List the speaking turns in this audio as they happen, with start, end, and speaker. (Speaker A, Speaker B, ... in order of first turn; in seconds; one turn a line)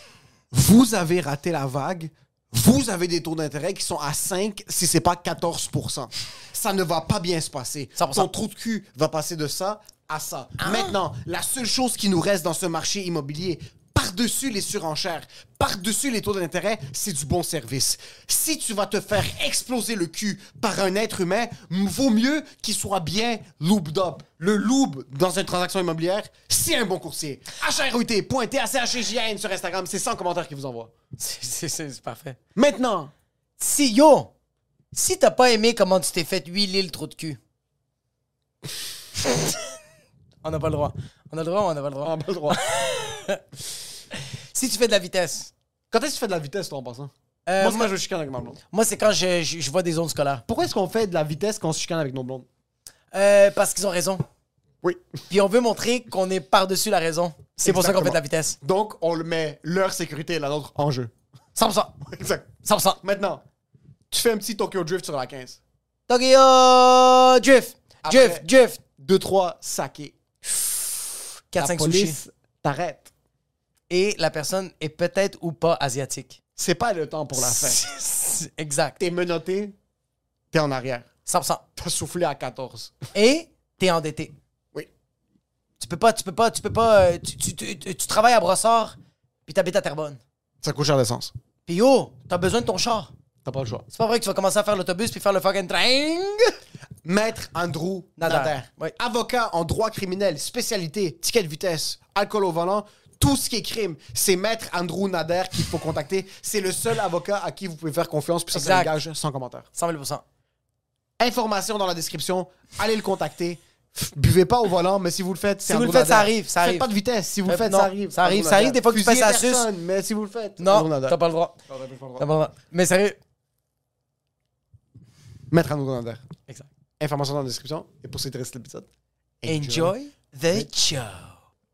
Speaker A: 0.5-30.9
Speaker B: 8.0-8.3
Speaker B: 10.6-10.9
Speaker B: 31.2-32.4
Speaker A: 32.5-33.1
Speaker B: 33.6-34.3
Speaker B: 34.9-37.4
Speaker B: 40.4-43.4
Speaker A: 42.0-42.6
Speaker B: 44.1-45.5
Speaker A: 45.9-48.6
Speaker B: 47.5-47.9
Speaker B: 48.7-50.4
Speaker A: 50.5-52.5
Speaker B: 53.1-54.2
Speaker B: 55.3-58.6
Speaker A: 57.6-61.1
Speaker B: 61.5-62.0
Speaker A: 62.0-63.4
Speaker B: 62.6-63.0
Speaker A: 64.1-65.6
Speaker B: 66.1-68.8
Speaker A: 68.0-70.2
Speaker B: 71.5-72.2
Speaker A: 71.6-73.1
Speaker B: 73.9-76.4
Speaker A: 76.5-77.8
Speaker B: 77.4-79.0
Speaker A: 79.0-79.8
Speaker A: 80.5-81.1
Speaker B: 81.2-81.6
Speaker A: 81.8-82.9
Speaker B: 83.1-84.3
Speaker B: 85.8-89.0
Speaker B: 89.5-90.2
Speaker A: 90.6-91.3
Speaker B: 91.7-93.1
Speaker A: 93.4-93.8
Speaker B: 93.9-96.5
Speaker A: 97.0-109.7
Speaker B: 98.2-98.9
Speaker B: 108.5-108.9
Speaker B: 109.8-110.2
Speaker A: 111.2-122.3
Speaker B: 115.7-116.9
Speaker B: 117.5-119.6
Speaker B: 120.6-121.5
Speaker B: 122.2-123.2
Speaker A: 125.5-126.2
Speaker A: 127.0-128.9
Speaker A: 129.4-129.9
Speaker B: 129.4-131.3